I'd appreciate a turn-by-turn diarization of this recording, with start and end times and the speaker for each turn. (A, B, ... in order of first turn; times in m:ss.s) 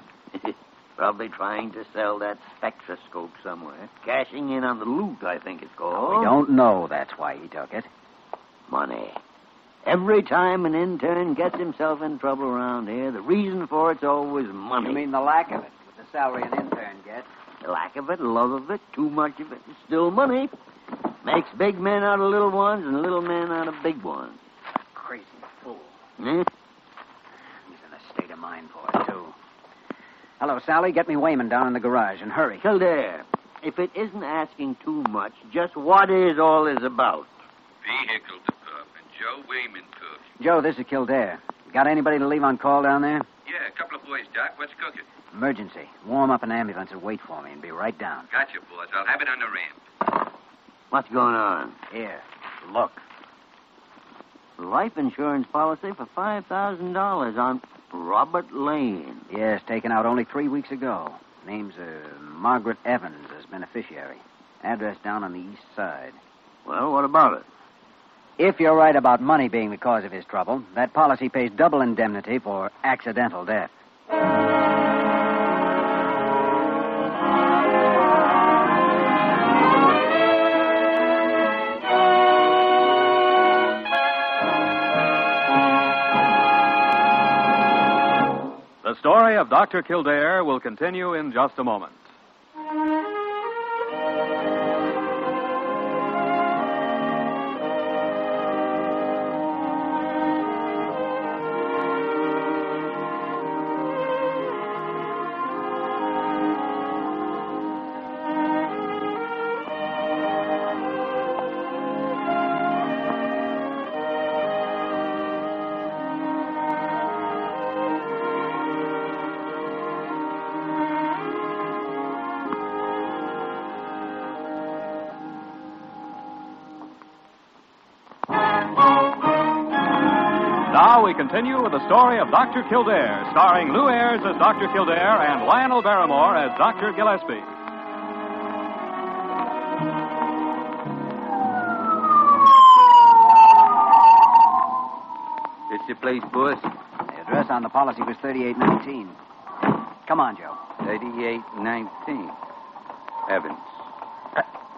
0:00.3-0:06.4 A
0:05.9-0:07.9 B
0:08.7-0:09.2 A
0:09.8-0:15.0 A
0:14.8-0:17.3 B
0:17.6-0:20.5 A
0:21.2-0:24.4 A
0:24.9-0:25.9 B
0:26.2-0:26.5 A
0:27.7-0:29.4 B
0:30.4-0:32.6 B
0:32.6-0:37.3 A
0:37.8-0:40.2 C
0:40.4-0:43.3 B
0:43.4-0:45.1 C
0:45.3-0:48.3 B
0:48.3-0:49.8 C
0:50.9-0:51.8 A
0:51.9-0:53.0 B
0:54.6-0:59.2 A
0:59.3-1:06.2 B
1:06.6-1:07.4 A
1:08.4-1:13.7 B
1:28.8-1:32.0 D
2:10.7-2:17.5 D
2:25.7-2:26.7 C
2:27.1-2:29.2 B
2:30.0-2:30.6 B
2:30.8-2:32.4 C
2:33.3-2:33.7 C